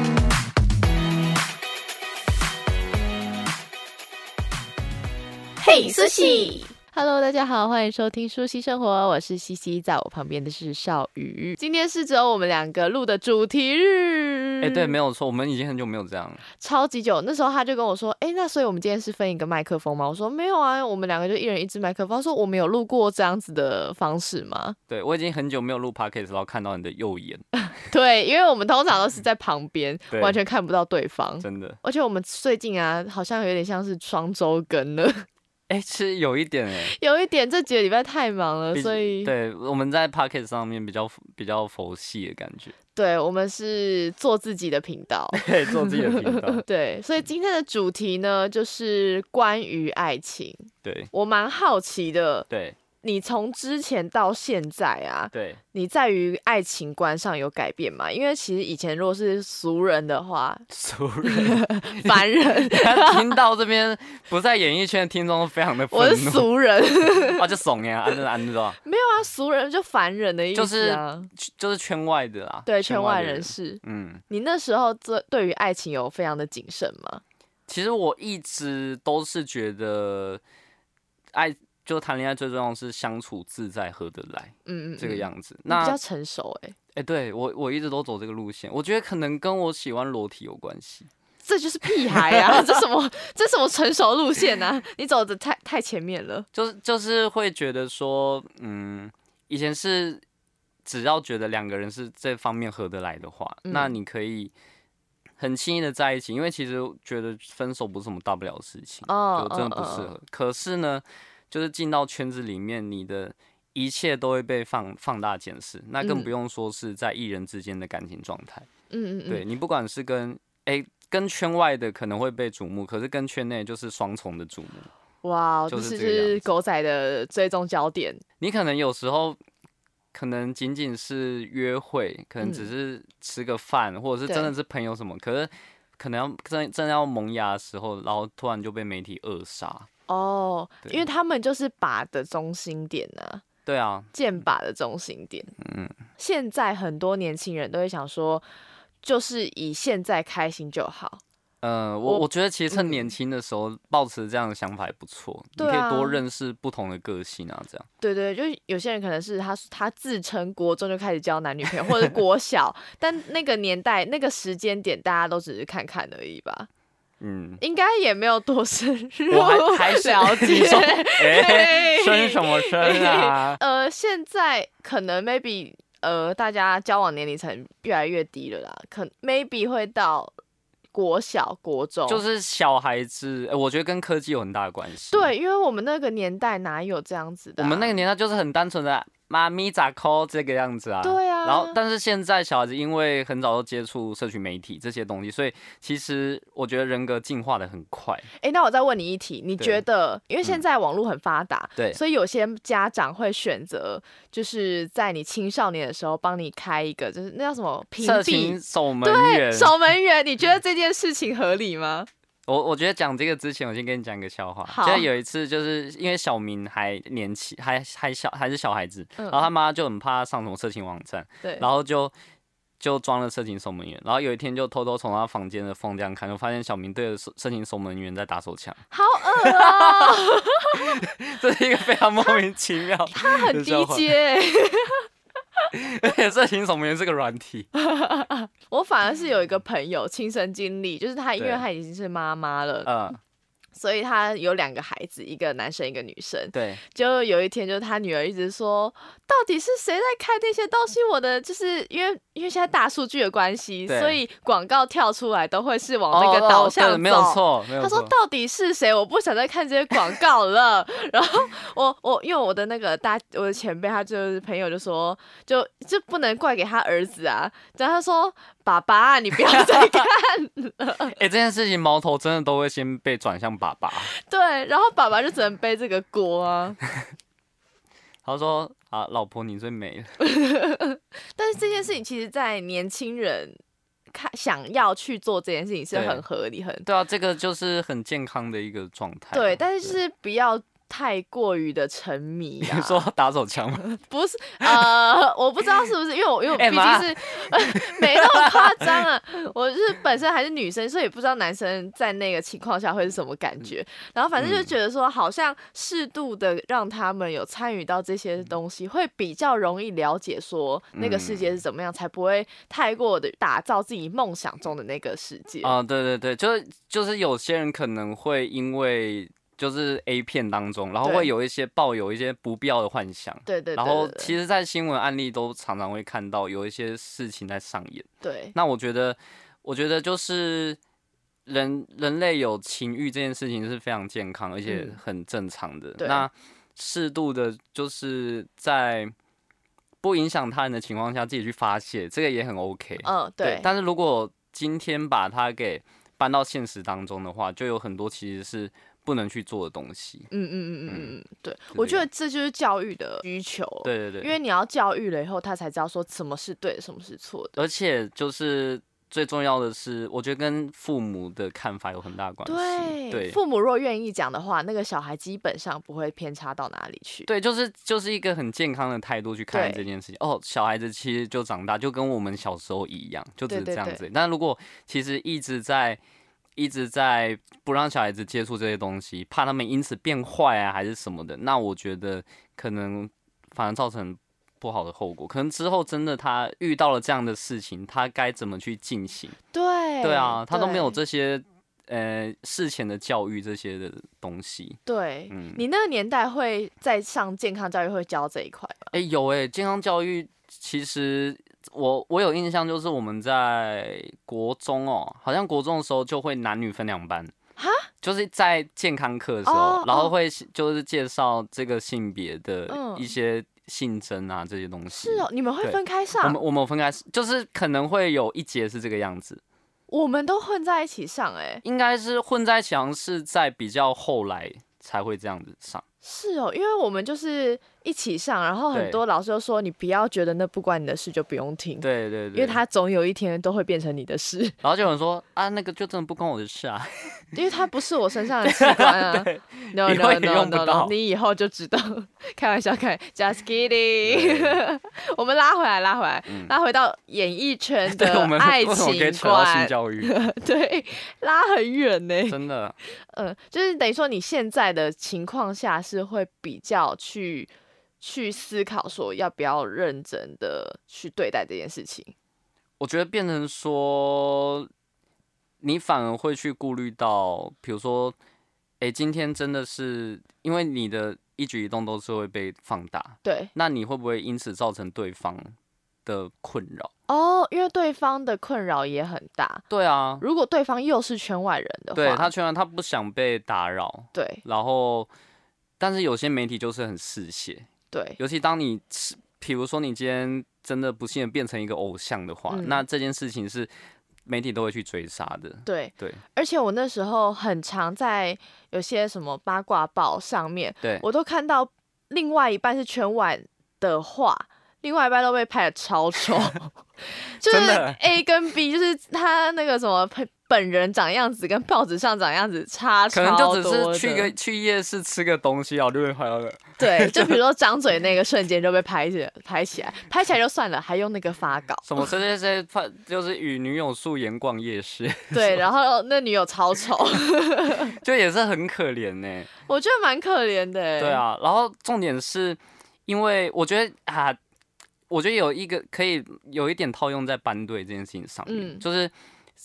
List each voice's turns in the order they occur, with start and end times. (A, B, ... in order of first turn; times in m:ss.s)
0:05.6-0:14.9 A
0:14.6-0:16.4 B
0:16.6-0:24.8 A
0:24.9-0:27.4 B
0:27.7-0:35.2 A
0:30.1-0:30.4 B
0:31.4-0:31.8 B
0:35.7-0:36.9 B
0:36.8-0:39.3 A
0:38.7-0:42.7 B
0:42.9-0:52.5 A
0:45.3-0:46.6 B
0:50.8-0:51.1 B
0:52.5-0:52.8 B
0:53.0-1:00.6 A
0:55.3-0:55.6 B
1:00.7-1:06.5 B
1:01.2-1:03.4 A
1:05.9-1:07.4 A
1:07.0-1:08.8 B
1:08.8-1:11.3 A
1:10.5-1:14.2 B
1:12.6-1:17.2 A
1:17.7-1:20.4 B
1:21.3-1:26.0 B
1:24.6-1:26.8 A
1:26.9-1:31.1 B
1:31.4-1:36.5 A
1:32.3-1:32.6 B
1:36.5-1:40.2 B
1:40.8-1:44.5 B
1:43.6-1:43.9 A
1:45.4-1:58.7 B
1:49.1-1:50.1 A
1:56.0-1:56.3 A
1:58.9-1:59.4 A
1:59.3-2:04.9 B
2:05.2-2:08.2 A
2:05.7-2:06.4 B
2:08.4-2:09.4 B
2:10.1-2:19.9 B
2:12.4-2:12.7 A
2:14.3-2:14.5 A
2:20.1-2:23.4 A
2:23.6-2:24.1 B
2:24.1-2:25.5 A
2:25.6-2:25.9 B
2:26.2-2:28.4 A
2:29.0-2:31.2 A
2:31.6-2:37.9 B
2:32.0-2:33.1 A
2:35.6-2:36.2 A
2:38.0-2:46.7 A
2:41.8-2:42.1 B
2:47.2-2:47.6 B
2:47.6-3:00.3 A
2:49.3-2:53.6 B
3:00.9-3:02.2 A
3:02.1-3:05.3 B
3:05.1-3:08.0 A
3:07.6-3:18.3 B
3:11.0-3:11.8 A
3:18.4-3:32.1 A
3:28.0-3:29.7 B
3:32.5-3:42.1 B
3:34.6-3:35.1 A
3:39.2-3:39.5 A
3:42.8-3:48.8 B
3:48.9-3:51.0 A
3:49.3-3:54.1 B
3:53.1-3:55.1 A
3:55.7-3:57.7 B
3:57.7-4:02.9 A
4:01.4-4:01.6 B
4:02.8-4:03.2 B
4:03.7-4:31.1 A
4:06.5-4:06.8 B
4:13.9-4:14.2 B
4:16.1-4:18.1 B
4:29.5-4:30.1 B
4:31.0-4:34.1 B
4:34.0-4:36.8 A
4:38.2-4:40.1 B
4:40.2-4:43.6 A
4:44.1-4:46.9 A
4:45.9-4:46.2 B
4:46.8-4:49.9 B
4:49.3-4:53.0 A
4:52.6-4:53.9 B
4:53.9-5:15.7 A
4:54.6-4:54.9 B
4:56.5-4:59.0 B
5:04.4-5:04.7 B
5:10.9-5:11.6 B
5:15.6-5:30.8 B
5:21.0-5:21.3 A
5:23.5-5:24.4 A
5:28.2-5:28.5 A
5:31.4-5:39.1 B
5:34.7-5:35.0 A
5:36.0-5:36.3 A
5:40.0-5:50.3 B
5:43.0-5:43.7 A
5:50.3-5:57.6 A
5:50.9-5:51.1 B
5:51.7-5:52.0 B
5:53.8-5:54.3 B
5:57.6-6:03.4 B
6:02.4-6:07.3 A
6:07.3-6:16.0 B
6:09.5-6:09.9 A
6:13.5-6:14.0 A
6:16.6-6:29.4 B
6:29.5-6:31.0 A
6:30.0-6:35.6 B
6:34.8-6:38.9 A
6:38.9-6:47.3 B
6:47.6-6:47.9 A
6:48.0-6:59.4 B
6:49.4-6:50.1 A
6:52.7-6:53.1 A
6:54.9-6:56.4 A
6:59.9-7:01.6 A
7:01.6-7:05.8 B
7:06.0-7:14.6 A
7:08.7-7:09.0 B
7:11.8-7:12.6 B
7:14.6-7:17.3 B
7:17.3-7:42.1 A
7:18.4-7:20.9 B
7:24.0-7:24.6 B
7:26.3-7:26.5 B
7:27.9-7:30.1 B
7:32.3-7:32.8 B
7:42.8-7:44.7 B
7:45.6-7:48.2 B
7:48.8-7:56.9 B
7:53.2-7:53.5 A
7:57.1-7:59.6 A
7:59.7-8:00.2 B
8:00.2-8:02.3 A
8:01.9-8:05.1 B
8:04.1-8:04.4 A
8:05.8-8:13.7 B
8:07.9-8:08.2 A
8:12.5-8:12.8 A
8:14.2-8:16.2 B
8:15.6-8:34.3 A
8:27.4-8:28.0 B
8:33.1-8:37.4 B
8:36.8-8:42.1 A
8:41.8-8:45.6 B
8:45.3-8:48.0 A
8:47.8-8:49.5 B
8:49.6-8:51.2 A
8:51.0-8:54.4 B
8:55.1-8:59.1 B
8:58.4-8:58.8 A